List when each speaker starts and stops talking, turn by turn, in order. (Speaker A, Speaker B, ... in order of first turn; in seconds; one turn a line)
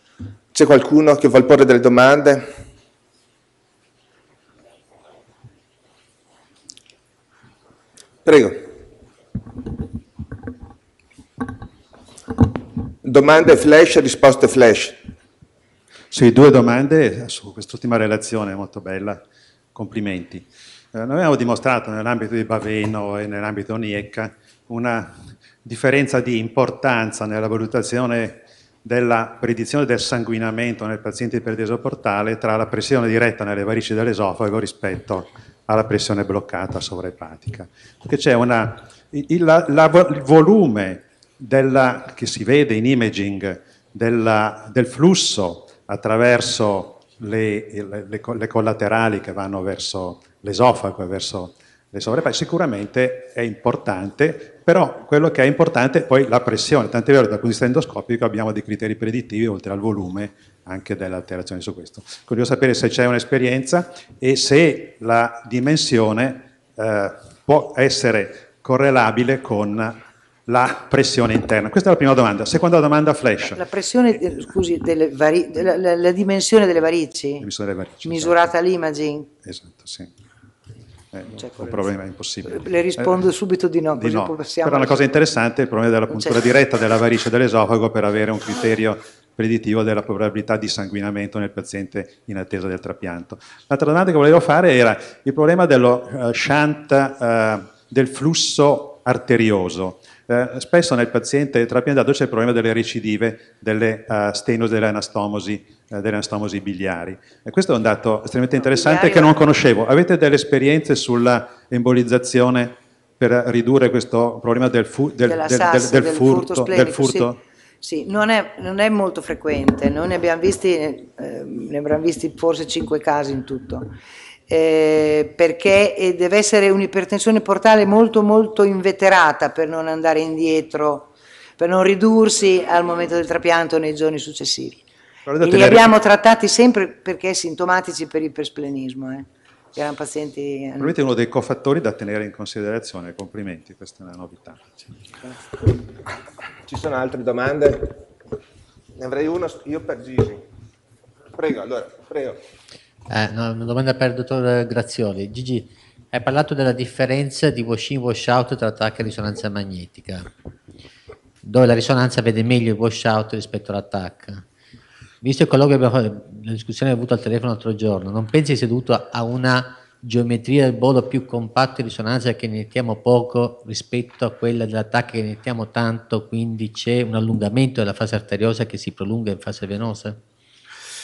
Speaker A: 0.5-2.4
Speaker A: 8.2-8.6
Speaker A: 13.0-15.0
Speaker B: 16.1-19.2
Speaker B: 19.7-25.1
Speaker B: 25.6-70.0
Speaker B: 70.5-73.6
Speaker C: 73.5-77.5
Speaker B: 77.4-78.5
Speaker C: 78.0-79.3
Speaker B: 79.4-80.1
Speaker B: 81.1-83.2
Speaker C: 81.3-81.9
Speaker C: 82.5-85.0
Speaker B: 83.9-117.4
Speaker C: 86.1-86.4
Speaker C: 108.7-109.4
Speaker C: 115.2-117.3
Speaker C: 117.8-123.9
Speaker C: 124.5-134.8
Speaker B: 135.3-135.9
Speaker C: 135.4-140.9
Speaker B: 140.8-144.9
Speaker A: 146.7-148.0
Speaker A: 149.0-150.4
Speaker A: 151.3-152.4
Speaker D: 153.1-160.2
Speaker D: 161.4-164.4
Speaker D: 165.2-180.2